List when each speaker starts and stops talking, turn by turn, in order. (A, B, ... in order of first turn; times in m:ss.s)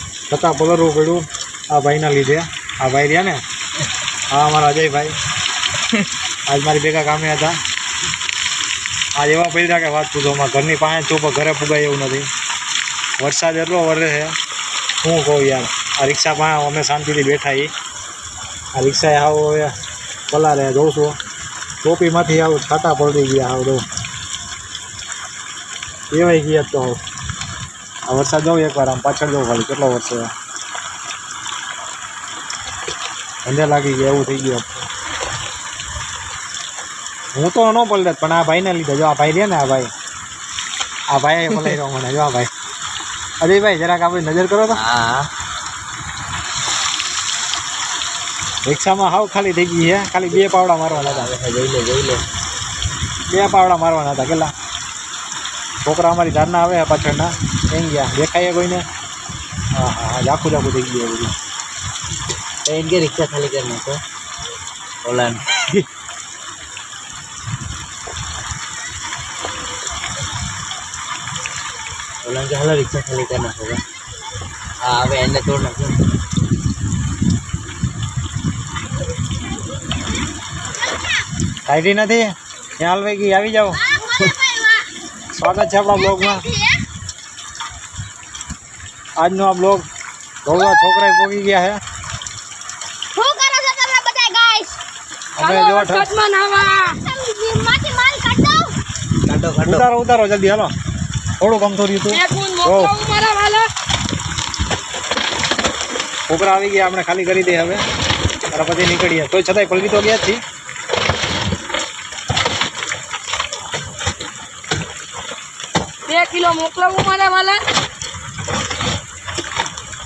0:00.3-0:03.4 A
0:04.3-0:05.2 A
0:06.5-0:07.6 A
0:09.2-0:12.3 A
0:13.2-0:14.4 A
0:15.0-0:17.7 A
0:18.7-0:19.7 A
0:20.3-0:21.2 A
0:21.8-0:23.8 A
0:26.1-0:27.0 A
0:28.1-0:30.3 A
0:33.4-0:34.8 A
0:37.3-0:39.9 A
0:41.1-0:42.5 A
0:43.4-0:44.8 A
0:44.7-0:45.3 B
0:48.6-0:51.3 A
0:50.3-0:52.2 B
0:53.3-0:54.5 A
0:55.8-0:58.8 A
0:59.7-1:01.3 A
1:02.6-1:04.0 B
1:05.0-1:05.7 B
1:12.2-1:13.8 B
1:14.8-1:16.1 B
1:21.7-1:23.9 A
1:23.8-1:24.9 C
1:25.3-1:26.5 A
1:26.0-1:26.8 C
1:29.2-1:29.8 A
1:30.4-1:31.8 A
1:33.1-1:34.8 C
1:35.4-1:36.1 A
1:35.4-1:37.0 D
1:36.6-1:38.8 C
1:39.3-1:39.9 B
1:39.6-1:40.7 A
1:41.4-1:42.9 A
1:42.1-1:43.7 D
1:46.3-1:47.8 A
1:48.5-1:50.4 A
1:56.1-1:57.6 D